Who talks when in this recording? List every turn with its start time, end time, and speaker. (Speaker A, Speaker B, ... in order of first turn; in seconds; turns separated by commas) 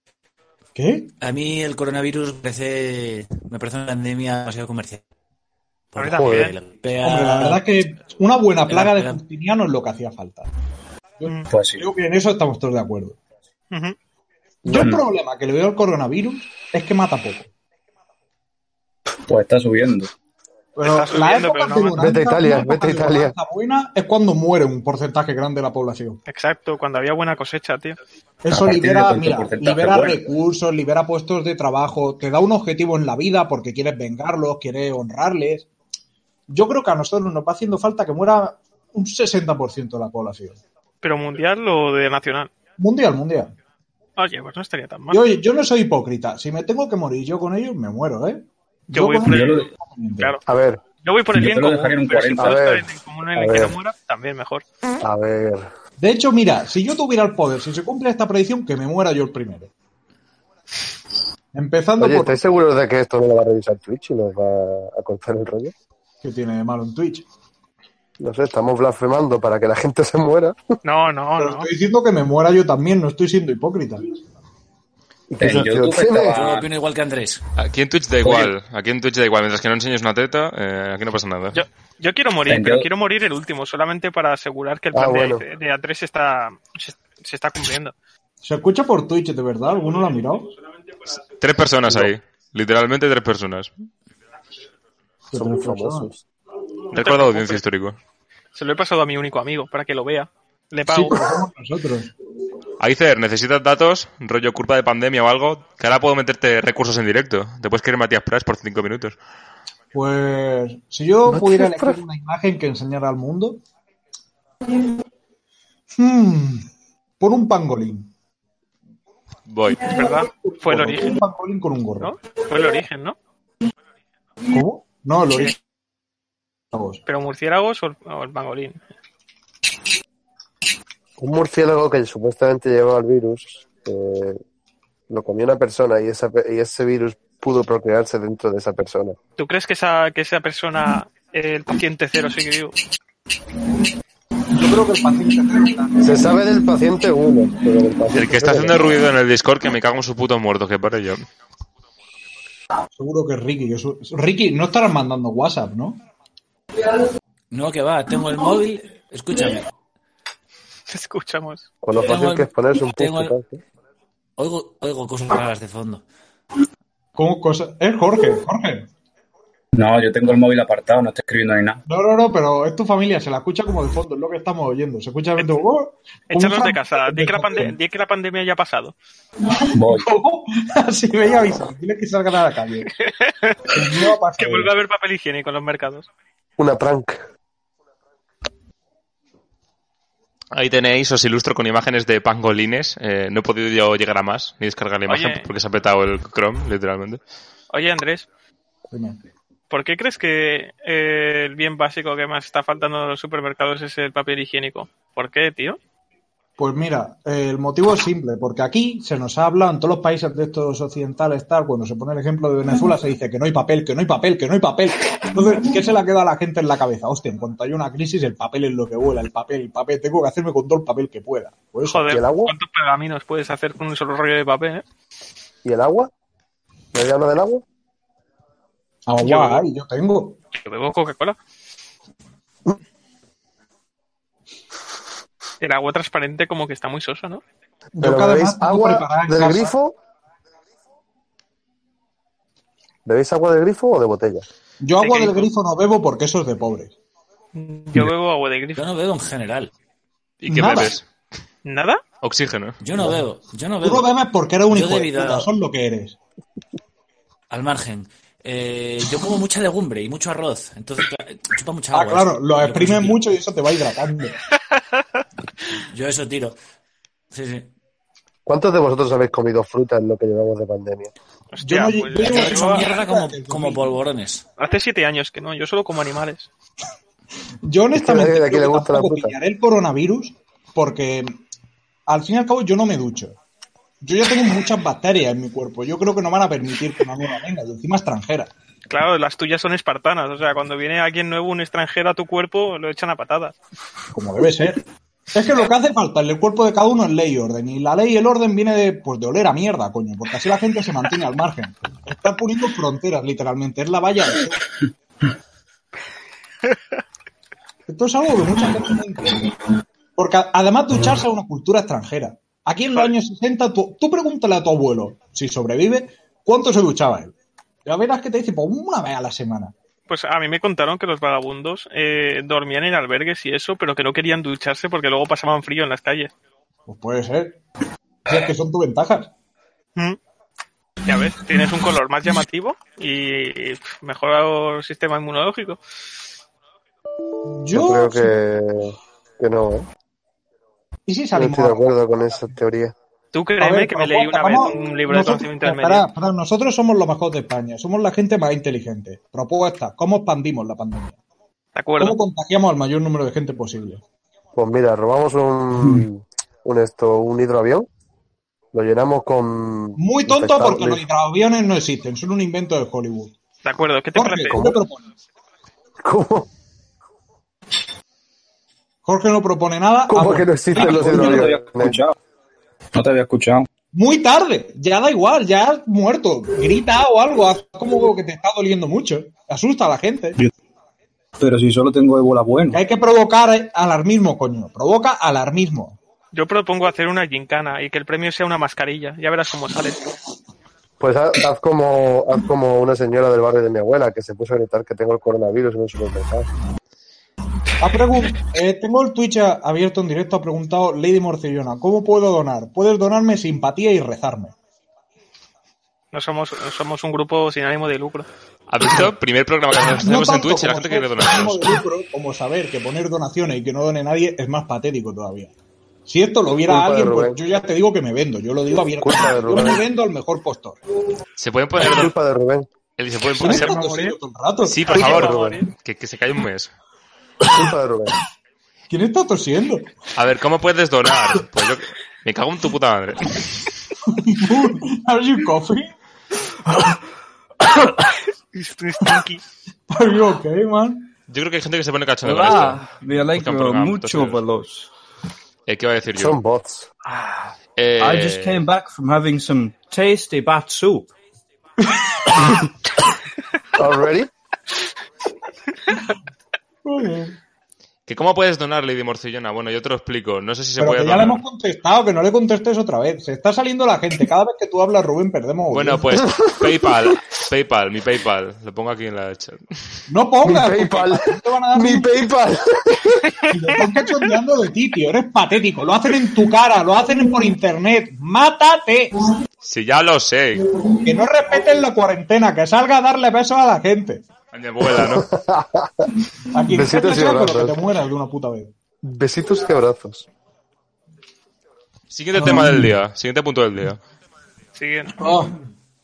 Speaker A: 0.8-1.1, Speaker B: 1.2-5.0, Speaker B: 5.9-7.6, Speaker C: 6.0-6.5, Speaker D: 6.0-6.5, Speaker A: 7.0-10.5, Speaker B: 8.7-9.2, Speaker A: 11.2-13.2, Speaker E: 11.5-11.9, Speaker C: 13.7-13.9, Speaker D: 14.6-14.9, Speaker A: 14.7-17.5, Speaker E: 14.7-15.0, Speaker E: 19.3-20.1, Speaker A: 20.8-26.2, Speaker C: 20.8-22.1, Speaker D: 22.0-23.3, Speaker C: 26.3-28.0, Speaker A: 28.4-35.7, Speaker E: 28.5-30.2, Speaker A: 36.5-40.6, Speaker C: 41.0-42.5, Speaker A: 42.8-43.5, Speaker C: 44.2-45.2, Speaker A: 45.1-50.4, Speaker C: 48.9-50.4, Speaker E: 49.3-49.7, Speaker D: 50.5-50.8, Speaker C: 51.0-54.6, Speaker E: 51.3-52.6, Speaker D: 52.3-53.8, Speaker D: 55.0-55.7, Speaker A: 56.0-59.7, Speaker A: 61.5-62.4, Speaker D: 62.0-65.7, Speaker A: 66.2-67.2, Speaker D: 68.2-70.7, Speaker C: 70.8-71.7, Speaker A: 71.4-74.0, Speaker D: 75.3-76.3, Speaker E: 75.4-76.7, Speaker B: 76.2-77.4, Speaker F: 77.6-81.6, Speaker E: 78.2-78.5, Speaker C: 81.5-87.9, Speaker E: 82.5-82.9, Speaker D: 84.9-85.4, Speaker A: 88.4-90.5, Speaker F: 91.4-93.7, Speaker D: 91.8-92.1, Speaker A: 95.3-96.1, Speaker D: 95.3-96.2, Speaker C: 96.9-97.6, Speaker F: 96.9-98.0, Speaker C: 98.5-101.4, Speaker A: 100.9-102.1, Speaker F: 102.8-109.2, Speaker A: 109.9-113.6, Speaker D: 111.3-112.0, Speaker A: 116.0-116.7, Speaker A: 117.2-118.1, Speaker F: 119.5-119.9, Speaker C: 119.8-121.2, Speaker A: 120.2-122.2, Speaker C: 122.0-123.2, Speaker A: 124.5-125.5, Speaker A: 126.7-127.0, Speaker C: 127.0-128.8, Speaker D: 131.2-134.4, Speaker D: 135.1-139.2, Speaker C: 139.4-142.8, Speaker A: 144.5-146.3, Speaker D: 146.0-149.1, Speaker F: 148.1-151.2, Speaker A: 152.9-156.0, Speaker B: 157.5-159.6, Speaker C: 160.9-161.7, Speaker D: 161.8-163.6, Speaker B: 162.0-163.3, Speaker B: 164.4-166.0, Speaker A: 167.2-168.9, Speaker E: 169.7-171.8, Speaker A: 171.8-177.8, Speaker C: 176.3-178.9, Speaker E: 179.7-180.1, Speaker A: 179.8-182.9, Speaker C: 183.0-183.6, Speaker A: 183.7-184.7, Speaker C: 184.3-186.1, Speaker D: 186.6-187.2, Speaker F: 190.5-197.2, Speaker C: 195.1-195.5, Speaker C: 197.7-198.3, Speaker A: 198.9-199.2, Speaker C: 199.7-205.8, Speaker A: 206.6-222.2, Speaker C: 221.8-224.8, Speaker D: 222.1-222.6, Speaker D: 225.6-226.1, Speaker D: 226.9-227.6, Speaker A: 229.1-230.4, Speaker C: 229.2-229.6, Speaker C: 230.5-231.4, Speaker C: 235.6-237.4, Speaker A: 238.0-239.7, Speaker D: 238.0-239.9, Speaker D: 243.1-244.5, Speaker A: 244.8-246.9, Speaker C: 245.0-245.5, Speaker C: 247.5-248.8, Speaker B: 248.8-249.7, Speaker F: 250.4-251.0, Speaker A: 250.5-251.0, Speaker C: 251.6-252.0, Speaker F: 252.2-252.8, Speaker B: 252.8-254.1, Speaker A: 253.8-256.2, Speaker B: 254.7-255.5, Speaker B: 257.5-263.2, Speaker A: 261.9-264.3, Speaker B: 265.9-266.6, Speaker B: 267.3-267.7, Speaker D: 268.4-271.1, Speaker C: 271.5-272.9, Speaker A: 271.6-274.0, Speaker B: 272.2-274.4, Speaker C: 274.6-276.5, Speaker A: 277.6-281.4, Speaker D: 277.9-279.3, Speaker A: 282.1-283.4, Speaker A: 284.0-288.5, Speaker C: 288.9-293.6, Speaker A: 294.1-294.8, Speaker A: 295.3-304.8, Speaker A: 307.9-309.5, Speaker A: 310.2-317.3, Speaker A: 317.9-319.7, Speaker C: 320.1-326.3, Speaker A: 326.9-327.6, Speaker A: 328.2-329.3, Speaker C: 331.0-335.8, Speaker A: 337.5-338.3, Speaker D: 337.7-339.9, Speaker A: 341.1-341.9, Speaker D: 341.3-342.9, Speaker C: 343.3-346.1, Speaker A: 343.6-351.1, Speaker C: 351.7-352.2, Speaker A: 352.0-354.0, Speaker D: 354.6-357.9, Speaker D: 358.7-361.0, Speaker A: 360.0-363.4, Speaker C: 363.6-364.7, Speaker A: 364.1-365.0, Speaker D: 366.0-366.5, Speaker A: 369.0-371.6, Speaker D: 370.1-372.0, Speaker E: 370.7-372.1, Speaker E: 372.9-373.7, Speaker A: 373.9-380.4, Speaker E: 381.4-382.8, Speaker A: 382.7-386.0, Speaker C: 386.3-390.1, Speaker D: 391.0-396.5, Speaker A: 397.8-404.5, Speaker C: 406.1-408.3, Speaker F: 408.7-411.8, Speaker A: 409.8-415.5, Speaker A: 416.1-420.8, Speaker D: 416.6-417.4, Speaker D: 419.0-419.8, Speaker F: 421.4-422.1, Speaker D: 421.8-422.7, Speaker F: 423.0-423.8, Speaker A: 423.4-425.0, Speaker C: 423.4-424.1, Speaker F: 424.6-426.7, Speaker C: 424.9-425.7, Speaker D: 425.0-425.6, Speaker D: 427.5-428.2, Speaker A: 428.9-429.9, Speaker F: 430.1-433.7, Speaker A: 434.0-435.9, Speaker A: 436.6-436.9, Speaker C: 438.5-439.4, Speaker A: 439.9-441.1, Speaker F: 441.3-444.4, Speaker G: 442.2-444.9, Speaker F: 445.7-446.4, Speaker D: 446.1-446.9, Speaker G: 447.0-451.1, Speaker F: 447.8-448.6, Speaker D: 453.7-454.3, Speaker A: 456.8-457.4, Speaker F: 458.1-461.4, Speaker A: 460.8-466.2, Speaker F: 465.7-469.6, Speaker D: 466.1-467.1, Speaker A: 470.1-472.1, Speaker D: 470.4-473.3, Speaker A: 473.5-479.2, Speaker F: 479.6-480.7, Speaker A: 481.0-484.2, Speaker F: 484.5-485.2, Speaker D: 484.9-486.1, Speaker A: 486.5-488.7, Speaker D: 486.7-487.8, Speaker D: 489.0-490.3, Speaker F: 492.1-494.0, Speaker A: 492.4-492.9, Speaker C: 494.8-495.1, Speaker A: 495.2-495.5